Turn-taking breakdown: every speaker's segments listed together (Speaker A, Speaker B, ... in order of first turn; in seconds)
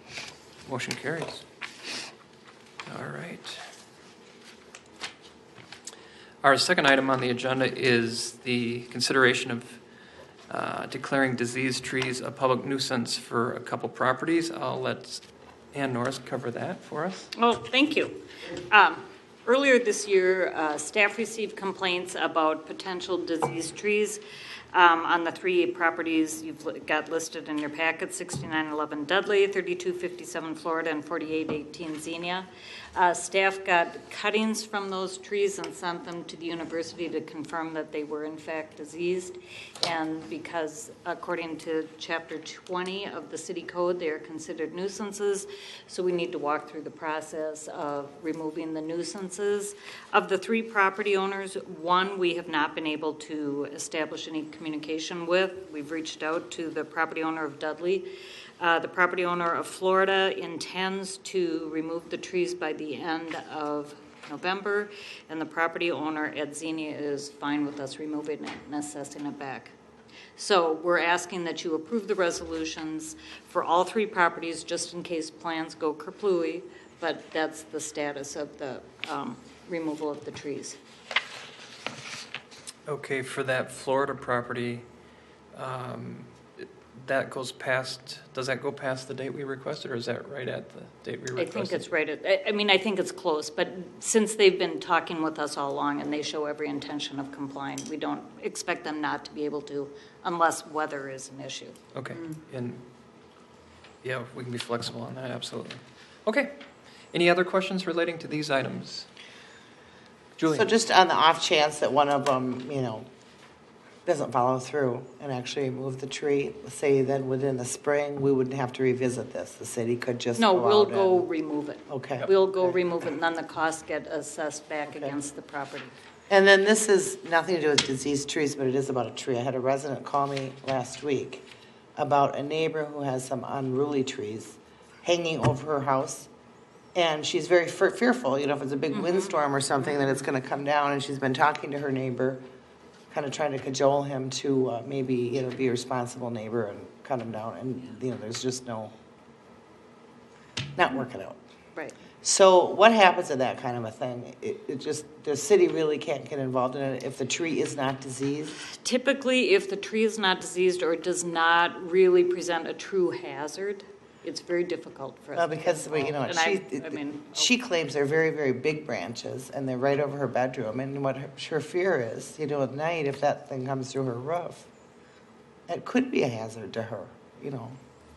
Speaker A: 0.7-1.4, 2.9-3.6, 6.4-9.8, 10.5-17.3, 82.9-84.8, 85.5-91.9, 101.9-102.8, 104.0-106.6, 107.1-109.1, 110.4-110.7
Speaker B: 17.4-24.2, 24.7-69.7, 70.4-80.8, 91.4-101.8, 120.4-126.0, 138.9-139.4, 158.7-167.5
Speaker C: 110.5-113.1, 114.1-121.3, 121.9-122.8, 124.9-125.2, 126.3-131.4, 132.0-136.3, 136.9-142.4, 143.1-148.9, 150.8-151.4, 152.2-158.6, 165.4-174.7, 175.7-177.8